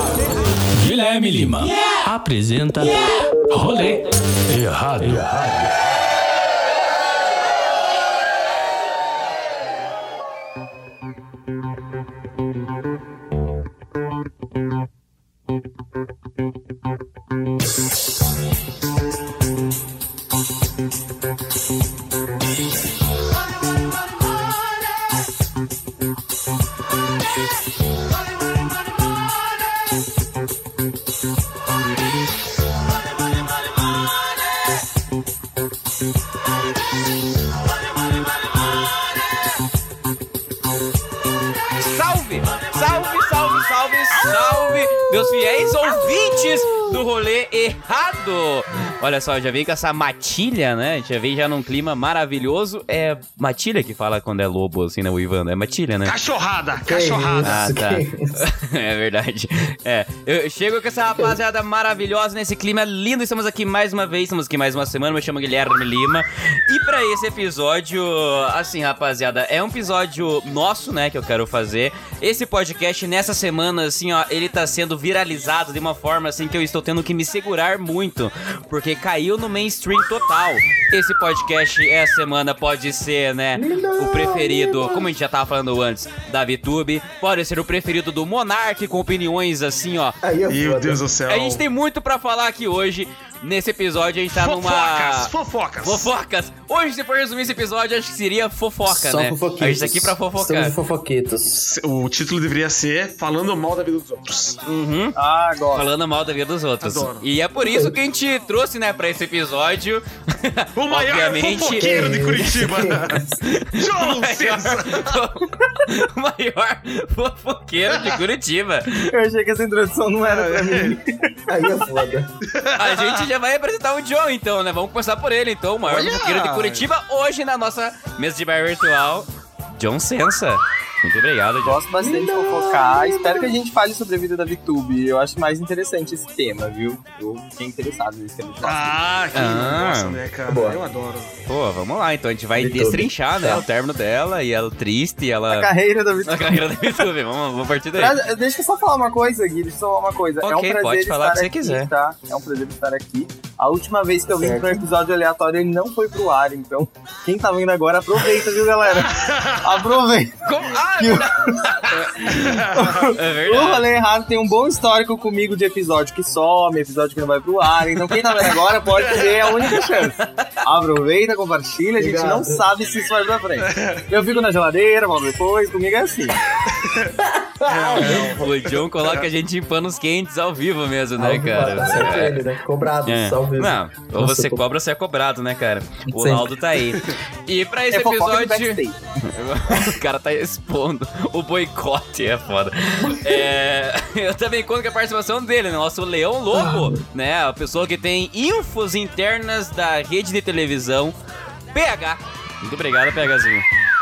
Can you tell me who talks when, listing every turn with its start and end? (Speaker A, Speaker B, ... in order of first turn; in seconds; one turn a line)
Speaker A: 0.7-5.8
Speaker B: 41.8-56.1
Speaker C: 56.0-57.7
Speaker D: 56.8-58.4
Speaker B: 57.4-90.2
Speaker D: 83.5-85.2
Speaker D: 90.2-91.0
Speaker C: 90.5-91.7
Speaker B: 91.3-100.7
Speaker C: 94.3-96.1
Speaker D: 98.9-101.6
Speaker C: 101.5-104.6
Speaker B: 104.7-105.2
Speaker E: 105.2-105.9
Speaker B: 105.8-112.0
Speaker C: 106.8-107.2
Speaker D: 107.6-108.0
Speaker C: 110.8-115.2
Speaker D: 111.8-113.4
Speaker B: 113.4-119.1
Speaker E: 119.1-121.3
Speaker C: 120.2-121.0
Speaker D: 121.5-122.3
Speaker C: 122.4-123.3
Speaker B: 122.8-131.8
Speaker C: 125.8-126.9
Speaker E: 131.6-139.0
Speaker D: 132.0-133.5
Speaker C: 138.6-141.3
Speaker B: 139.3-140.2
Speaker D: 140.5-140.8
Speaker B: 141.4-145.7
Speaker D: 142.6-143.6
Speaker E: 145.5-147.0
Speaker B: 146.2-148.2
Speaker E: 147.9-161.8
Speaker B: 150.4-151.9
Speaker D: 154.3-154.8
Speaker C: 159.0-160.0
Speaker B: 160.4-163.9
Speaker C: 161.9-163.2
Speaker E: 162.7-176.4
Speaker C: 169.0-169.8
Speaker D: 172.0-172.6
Speaker C: 173.6-174.0
Speaker C: 176.7-177.1
Speaker D: 177.2-178.4
Speaker C: 177.7-179.3
Speaker B: 178.0-182.4
Speaker D: 181.2-184.7
Speaker B: 183.1-201.2
Speaker D: 186.1-186.5
Speaker E: 187.9-189.0
Speaker D: 193.0-193.4
Speaker D: 196.5-197.0
Speaker B: 201.7-203.7